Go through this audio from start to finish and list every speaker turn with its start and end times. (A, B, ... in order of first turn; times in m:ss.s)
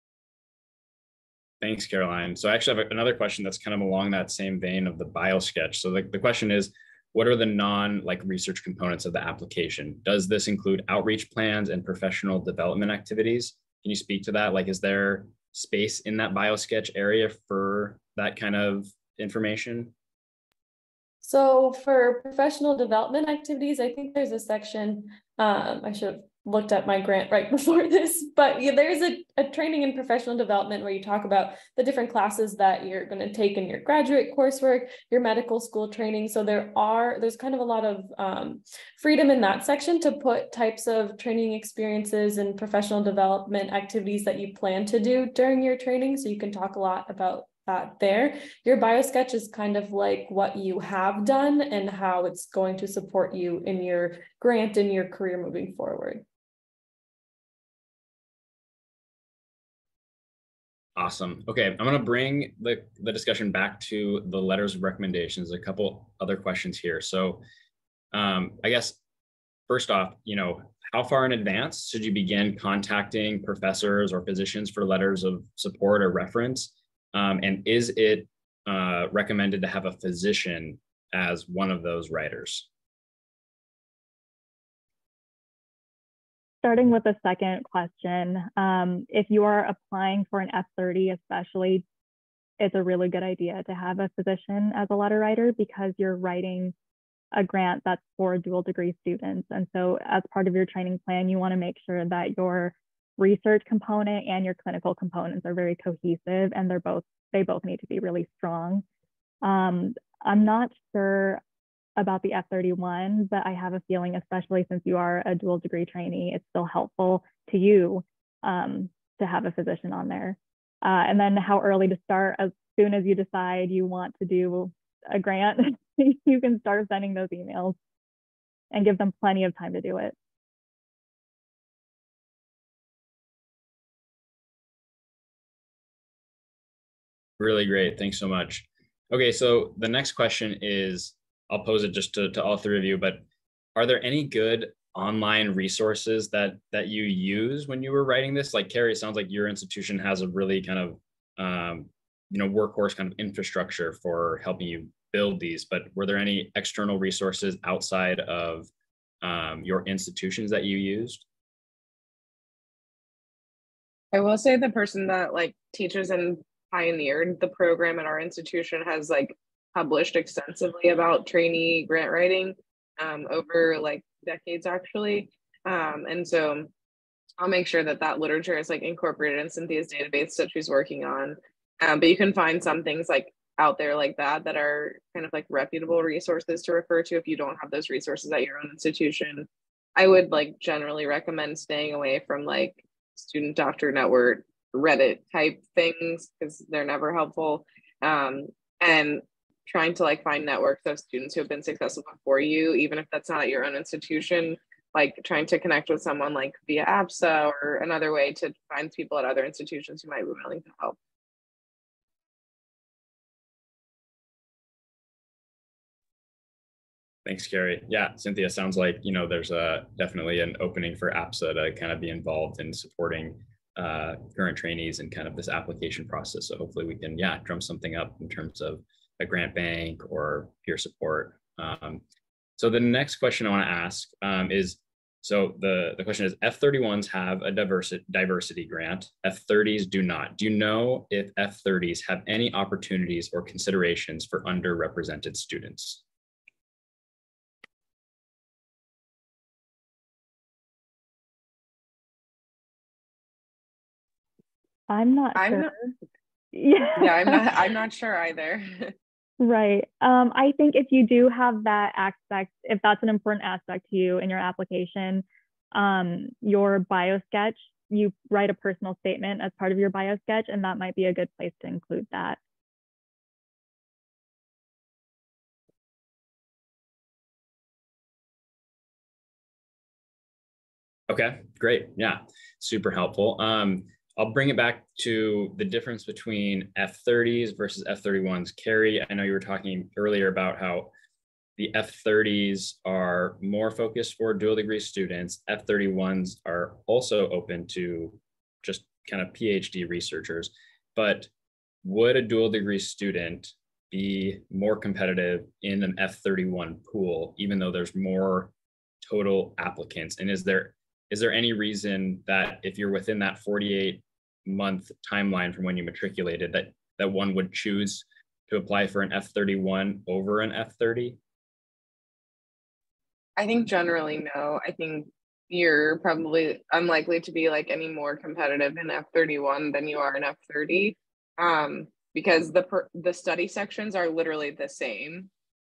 0:01.6-0:19.9 A
0:21.2-0:56.2 B
1:01.0-1:07.4 A
1:08.1-1:09.0 A
1:09.7-1:22.7 A
1:26.6-1:31.8 C
1:32.6-1:36.7 C
1:37.3-1:48.8 C
1:49.4-1:51.4 C
1:52.0-2:07.8 C
2:08.7-2:10.1 C
2:17.4-2:23.2 A
2:23.7-2:38.7 A
2:39.2-2:41.2 A
2:44.1-2:56.7 D
2:57.4-3:31.0 D
3:37.2-3:52.0 A
3:52.6-4:06.0 A
4:14.9-4:15.9 C
4:15.3-4:15.7 D
4:16.5-4:17.4 C
4:17.0-4:18.9 D
4:19.4-4:32.4 C
4:41.1-4:50.9 A
4:51.6-5:01.3 A
5:01.8-5:08.5 A
5:09.0-5:21.2 A
5:23.4-5:35.3 D